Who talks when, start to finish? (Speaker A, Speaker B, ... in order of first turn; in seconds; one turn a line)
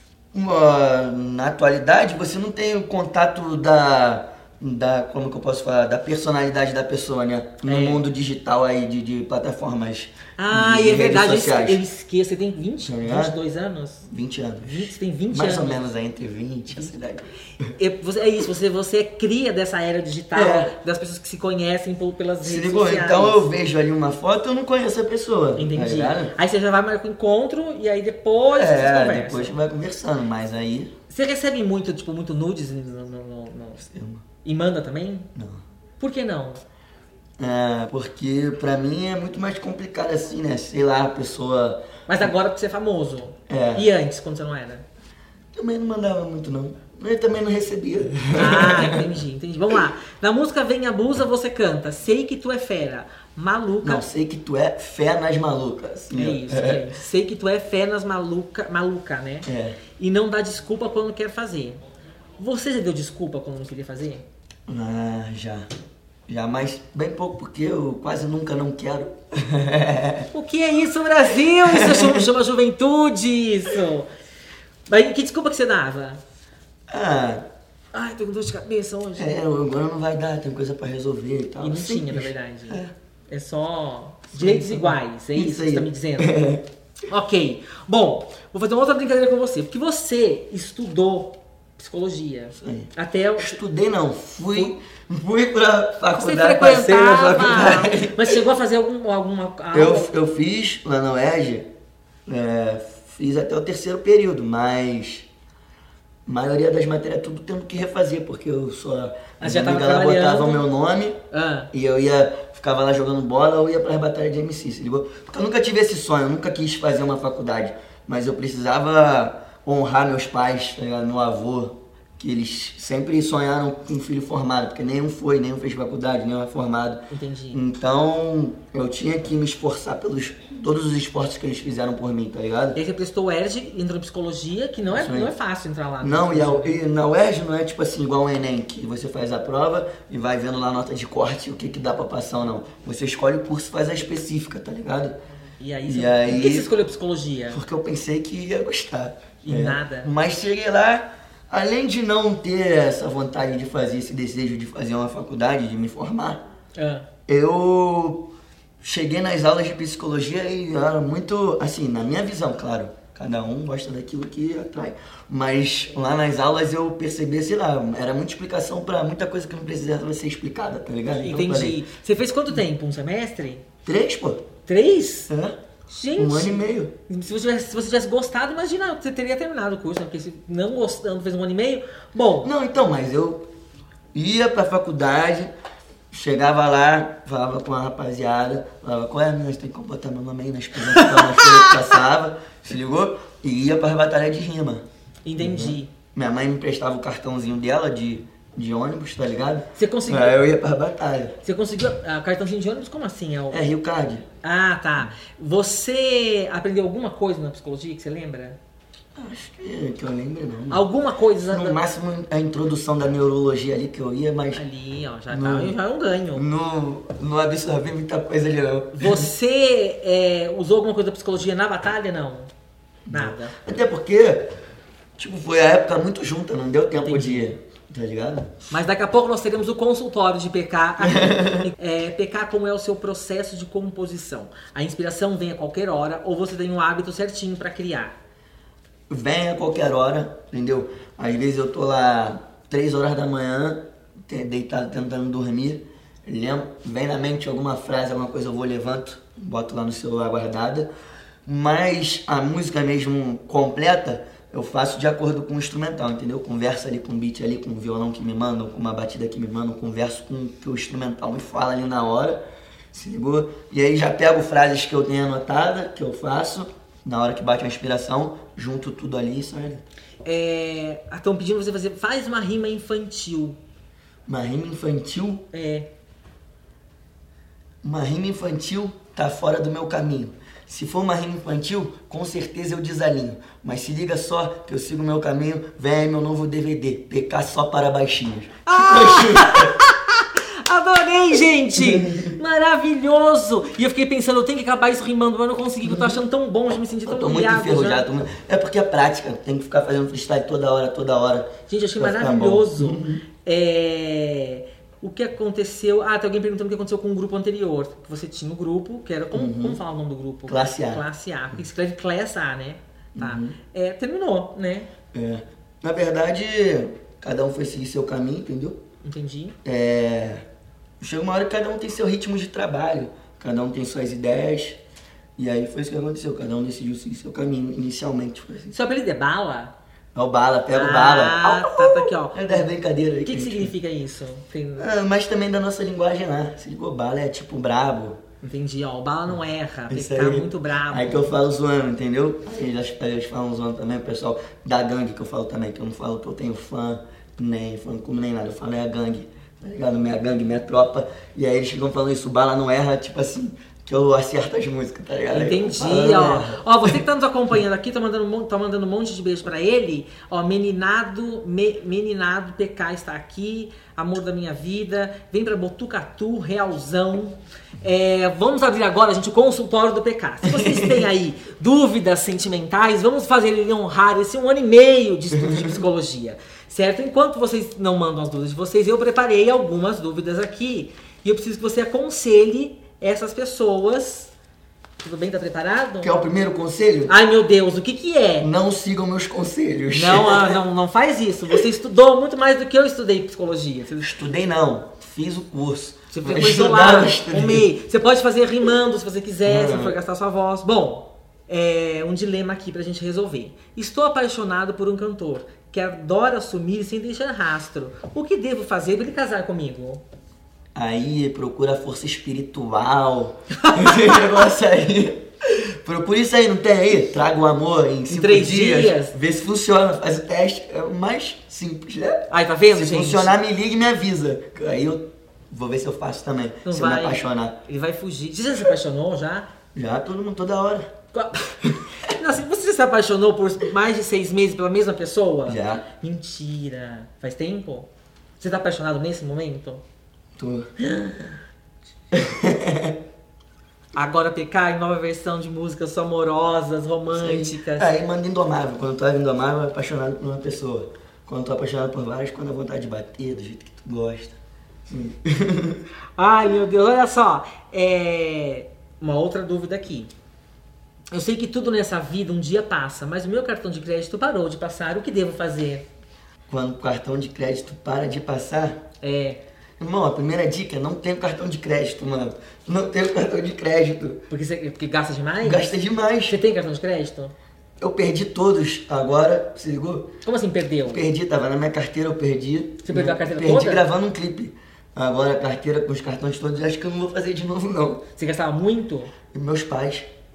Speaker A: 0.3-11.8
Speaker B: 7.6-8.0
Speaker B: 10.4-14.1
Speaker A: 12.8-13.3
Speaker A: 14.1-17.7
Speaker B: 14.6-15.8
Speaker B: 17.7-23.5
Speaker A: 20.3-20.7
Speaker A: 22.4-26.3
Speaker B: 25.6-29.6
Speaker A: 28.6-30.9
Speaker B: 31.1-33.8
Speaker A: 33.8-34.2
Speaker B: 34.4-35.3
Speaker A: 35.3-35.6
Speaker B: 36.0-36.6
Speaker A: 37.4-41.8
Speaker B: 42.1-44.8
Speaker A: 43.5-43.9
Speaker A: 45.5-49.1
Speaker B: 48.3-54.0
Speaker A: 53.8-56.9
Speaker B: 56.1-61.8
Speaker A: 59.4-59.8
Speaker B: 62.4-64.2
Speaker A: 64.7-65.7
Speaker A: 66.3-70.3
Speaker B: 70.3-74.1
Speaker A: 71.6-72.3
Speaker B: 74.9-76.2
Speaker A: 76.9-77.4
Speaker B: 77.9-79.3
Speaker A: 79.2-82.9
Speaker B: 81.6-86.3
Speaker A: 84.3-86.6
Speaker B: 87.1-93.6
Speaker A: 92.6-98.4
Speaker B: 96.1-100.1
Speaker A: 99.7-101.7
Speaker A: 102.2-105.3
Speaker A: 106.2-111.2
Speaker B: 109.4-110.6
Speaker B: 111.3-111.7
Speaker A: 111.7-132.8
Speaker B: 127.1-127.6
Speaker B: 132.7-136.8
Speaker A: 134.9-135.3
Speaker A: 136.0-145.1
Speaker B: 145.6-147.6
Speaker A: 145.9-146.7
Speaker A: 147.5-156.4
Speaker B: 149.4-150.1
Speaker B: 156.8-157.1
Speaker A: 157.3-158.3
Speaker A: 158.8-171.8
Speaker B: 171.2-173.6
Speaker A: 173.8-174.4
Speaker B: 174.7-175.3
Speaker A: 175.3-175.6
Speaker B: 175.9-182.5
Speaker A: 176.2-176.9
Speaker A: 182.4-183.4
Speaker A: 184.1-185.5
Speaker A: 186.1-194.8
Speaker B: 190.8-191.9
Speaker B: 195.2-195.9
Speaker A: 195.4-201.4
Speaker B: 199.8-200.3
Speaker B: 201.4-203.7
Speaker A: 203.5-204.2
Speaker B: 204.4-208.6
Speaker A: 209.1-210.8
Speaker B: 210.7-211.8
Speaker A: 211.4-214.6
Speaker B: 214.5-216.4
Speaker A: 215.3-215.7
Speaker A: 216.3-219.3
Speaker B: 218.9-222.5
Speaker A: 223.1-224.5
Speaker B: 223.1-223.5
Speaker A: 225.2-228.7
Speaker B: 226.9-227.5
Speaker B: 228.7-238.2
Speaker A: 231.0-231.7
Speaker A: 239.1-250.9
Speaker A: 251.4-262.4
Speaker A: 262.9-269.8
Speaker B: 270.2-273.6
Speaker A: 274.3-275.4
Speaker B: 275.5-275.9
Speaker A: 277.8-289.8
Speaker B: 288.6-298.0
Speaker A: 291.7-292.3
Speaker A: 295.9-296.2
Speaker A: 297.1-303.2
Speaker B: 301.7-314.9
Speaker A: 309.3-309.8
Speaker A: 310.5-311.0
Speaker A: 313.1-313.6
Speaker A: 315.1-318.8
Speaker B: 319.0-319.6
Speaker A: 319.6-320.4
Speaker A: 321.0-324.8
Speaker A: 325.4-328.7
Speaker B: 328.7-329.7
Speaker A: 330.1-333.7
Speaker B: 330.7-332.7
Speaker B: 333.2-334.9
Speaker A: 334.8-338.2
Speaker B: 338.4-341.3
Speaker A: 339.9-356.6
Speaker B: 355.3-384.3
Speaker A: 370.4-371.1
Speaker A: 375.4-375.8
Speaker B: 385.0-386.1
Speaker A: 386.0-387.1
Speaker B: 387.1-388.5
Speaker A: 388.4-390.6
Speaker B: 389.9-394.2
Speaker A: 394.0-397.7
Speaker B: 396.1-410.0
Speaker A: 399.4-400.0
Speaker A: 410.7-427.6
Speaker B: 413.6-414.4
Speaker B: 418.1-419.1
Speaker B: 422.3-423.4
Speaker B: 426.6-429.5
Speaker A: 429.7-430.9
Speaker B: 431.1-437.9
Speaker A: 435.5-435.8
Speaker B: 438.4-439.8
Speaker A: 440.4-441.4
Speaker A: 442.1-443.0
Speaker B: 443.9-447.9
Speaker A: 447.1-455.8
Speaker B: 456.2-460.1
Speaker B: 461.1-465.9
Speaker A: 466.5-468.8
Speaker B: 469.0-469.4
Speaker A: 469.8-474.2
Speaker B: 474.3-475.7
Speaker A: 475.4-476.4
Speaker B: 476.3-477.3
Speaker A: 477.8-480.1
Speaker B: 480.2-481.0
Speaker A: 480.9-488.0
Speaker B: 482.8-483.8
Speaker B: 488.2-489.1
Speaker A: 489.3-490.1